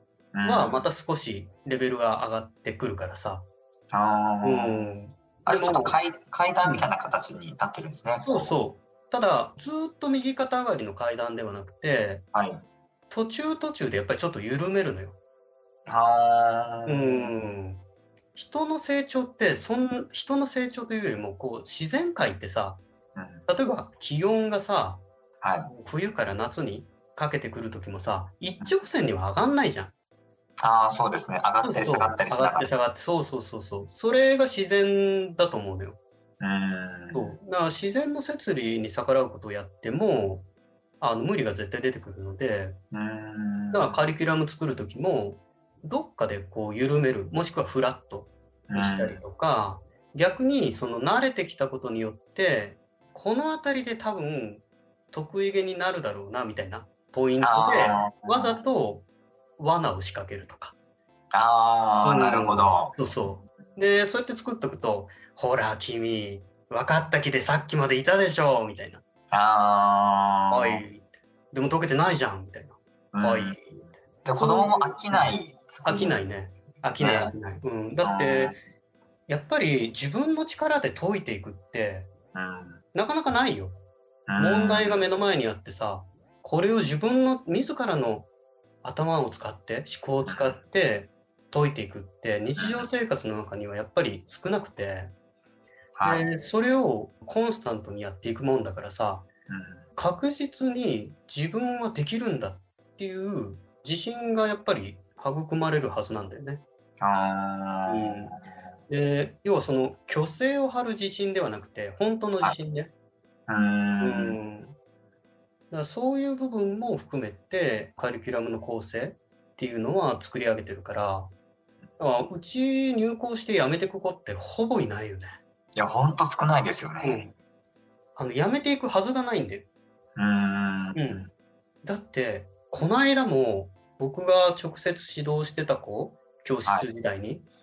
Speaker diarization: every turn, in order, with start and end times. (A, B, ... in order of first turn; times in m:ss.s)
0:00.3-0:00.8 A
0:00.4-0:03.4 B
0:03.9-0:04.9 A
0:04.4-0:05.9 B
0:05.4-0:08.6 A
0:08.2-0:12.2 B
0:12.3-0:12.6 A
0:13.1-0:15.2 B
0:15.9-0:17.3 A
0:16.9-0:17.8 B
0:18.3-0:22.8 B
0:23.1-0:23.5 A
0:23.5-0:25.0 B
0:25.4-0:25.7 A
0:25.6-0:29.9 B
0:30.6-0:32.7 A
0:31.6-0:36.0 B
0:36.4-0:37.4 A
0:37.1-0:40.5 B
0:41.0-0:42.8 B
0:42.9-0:44.0 A
0:43.7-0:59.0 B
0:48.7-0:49.2 A
0:57.4-0:58.6 A
0:59.6-1:00.7 B
1:01.3-1:03.1 A
1:02.0-1:09.0 B
1:09.3-1:10.8 A
1:10.5-1:18.5 B
1:13.1-1:13.6 A
1:14.2-1:16.2 A
1:17.0-1:17.3 A
1:18.0-1:18.6 A
1:19.3-1:22.1 B
1:22.3-1:22.8 A
1:22.9-1:23.8 B
1:24.3-1:25.1 A
1:24.4-1:28.3 B
1:28.8-1:35.1 B
1:30.2-1:30.6 A
1:32.6-1:32.9 A
1:36.0-1:36.2 A
1:36.0-1:39.2 B
1:39.5-1:39.9 A
1:40.0-1:46.6 B
1:47.0-1:48.6 A
1:47.9-1:48.4 B
1:48.9-1:52.9 B
1:53.5-1:54.4 A
1:54.0-1:54.7 B
1:55.7-2:01.3 B
2:02.0-2:05.4 B
2:05.8-2:07.2 A
2:07.0-2:07.3 B
2:08.2-2:09.7 B
2:10.2-2:11.2 A
2:10.9-2:11.3 B
2:11.8-2:17.5 B